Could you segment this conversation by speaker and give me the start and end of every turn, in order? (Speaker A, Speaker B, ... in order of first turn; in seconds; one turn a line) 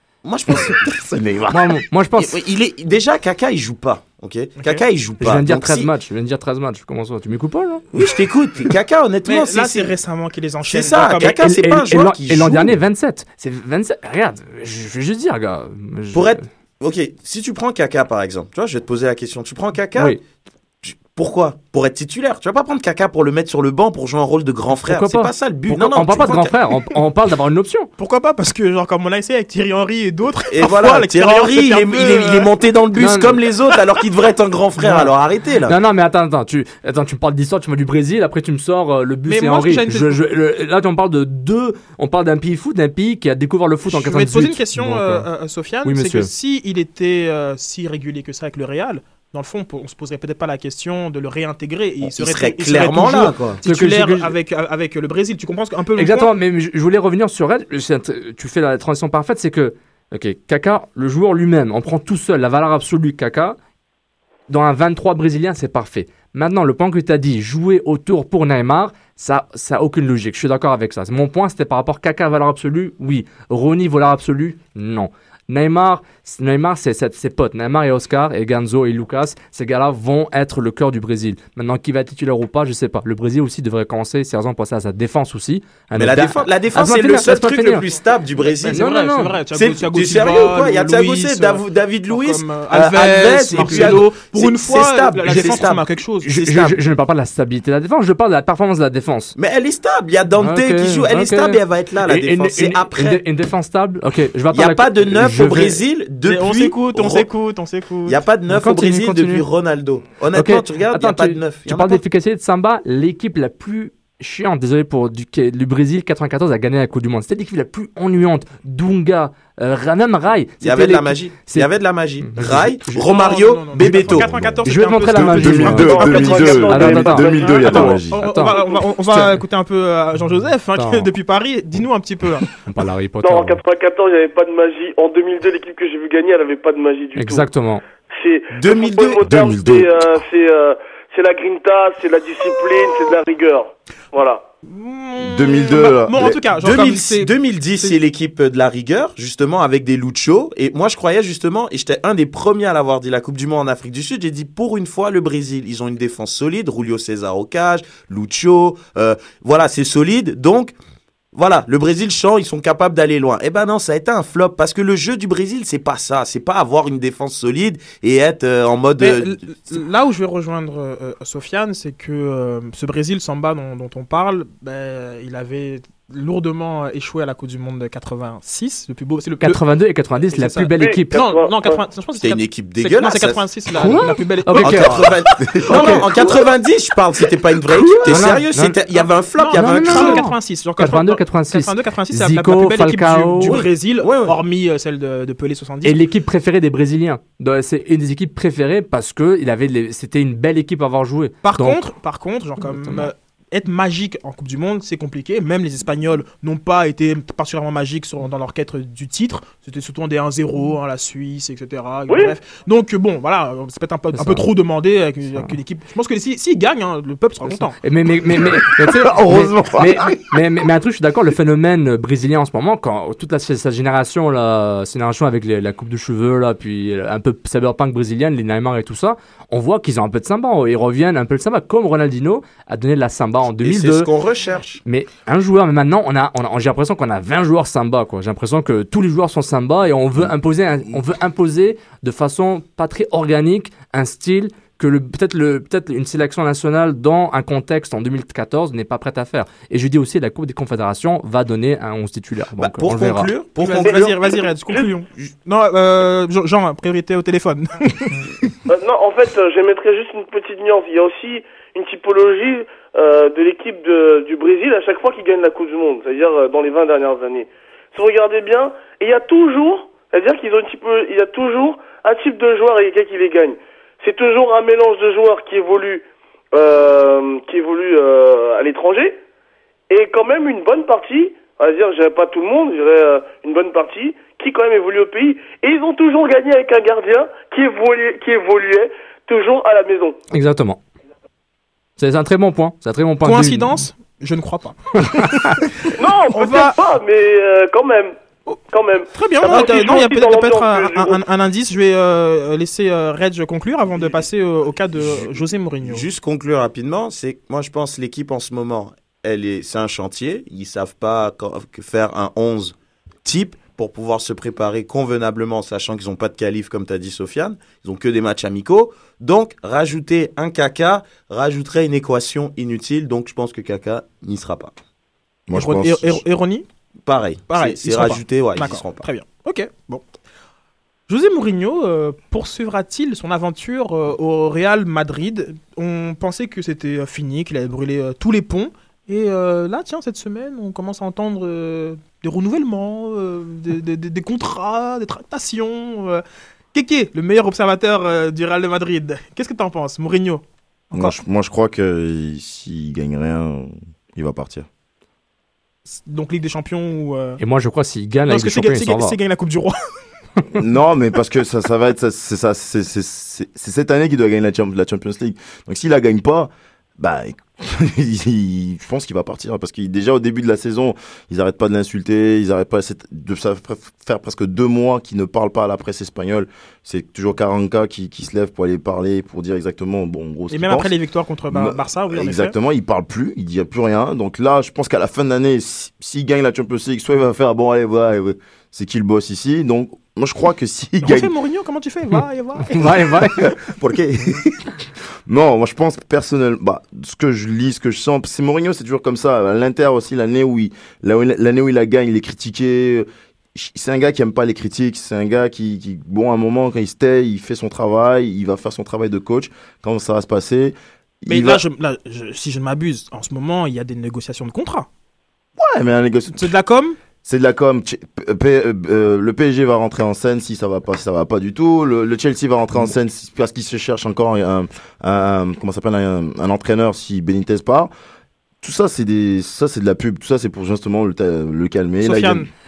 Speaker A: 0.2-5.9
Speaker B: 1.5-2.3
Speaker B: 5.2-7.8
Speaker A: 7.9-9.9
Speaker C: 9.2-11.4
Speaker A: 10.6-12.8
Speaker B: 11.3-16.4
Speaker A: 16.1-20.2
Speaker A: 20.8-26.5
Speaker B: 24.7-27.9
Speaker C: 28.0-32.5
Speaker A: 30.5-35.7
Speaker B: 33.0-33.4
Speaker B: 34.8-35.1
Speaker B: 35.7-45.2
Speaker C: 39.2-40.2
Speaker C: 43.9-56.3
Speaker B: 45.8-46.3
Speaker A: 52.0-53.6
Speaker B: 53.6-54.3
Speaker B: 55.9-63.5
Speaker B: 64.5-87.8
Speaker A: 85.9-88.8
Speaker C: 88.5-96.7
Speaker B: 88.7-89.4
Speaker A: 89.5-95.9
Speaker B: 93.5-94.0
Speaker B: 95.3-95.6
Speaker B: 96.2-99.3
Speaker A: 99.4-103.2
Speaker B: 100.4-105.8
Speaker A: 104.5-107.3
Speaker C: 106.2-108.2
Speaker A: 108.0-112.0
Speaker B: 108.5-109.4
Speaker B: 110.3-121.7
Speaker A: 120.6-124.3
Speaker B: 122.2-123.0
Speaker C: 122.9-132.5
Speaker D: 124.1-128.2
Speaker B: 124.6-129.4
Speaker E: 125.7-127.8
Speaker B: 130.7-131.1
Speaker B: 132.6-133.6
Speaker E: 133.2-137.5
Speaker B: 137.2-137.8
Speaker E: 138.1-144.4
Speaker A: 138.6-139.3
Speaker D: 139.2-140.2
Speaker C: 144.7-147.9
Speaker D: 145.2-146.4
Speaker A: 146.6-160.7
Speaker A: 161.3-169.8
Speaker C: 169.0-179.6
Speaker B: 179.4-181.2
Speaker C: 180.3-186.5
Speaker E: 180.7-181.8
Speaker A: 182.2-183.4
Speaker B: 183.7-185.1
Speaker A: 184.6-190.2
Speaker B: 185.7-186.1
Speaker B: 188.1-188.8
Speaker C: 189.4-196.0
Speaker B: 189.5-193.6
Speaker A: 193.4-194.4
Speaker B: 195.8-201.9
Speaker C: 201.4-217.8
Speaker B: 202.6-203.1
Speaker E: 212.1-212.3
Speaker B: 214.1-214.5
Speaker B: 217.5-234.1
Speaker D: 218.4-220.4
Speaker A: 233.6-234.8
Speaker B: 234.8-253.3
Speaker A: 252.6-254.3
Speaker C: 253.6-258.5
Speaker E: 258.7-279.2
Speaker E: 279.9-290.2
Speaker B: 290.3-290.8
Speaker B: 292.0-293.8
Speaker C: 293.2-296.8
Speaker B: 295.0-295.6
Speaker E: 296.0-301.2
Speaker C: 299.1-306.1
Speaker A: 305.0-324.7
Speaker D: 325.5-326.2
Speaker C: 325.5-326.6
Speaker A: 327.1-329.1
Speaker C: 327.5-330.0
Speaker C: 331.1-346.2
Speaker C: 346.7-351.1
Speaker D: 350.9-354.7
Speaker C: 355.9-357.4
Speaker B: 357.4-359.2
Speaker C: 358.2-359.7
Speaker D: 360.5-380.9
Speaker C: 380.5-382.5
Speaker D: 381.5-391.3
Speaker C: 391.0-393.3
Speaker B: 392.7-393.4
Speaker D: 393.2-411.6
Speaker C: 411.3-414.9
Speaker D: 415.6-416.5
Speaker C: 416.3-417.0
Speaker D: 417.2-427.9
Speaker D: 428.6-432.5
Speaker C: 432.0-432.5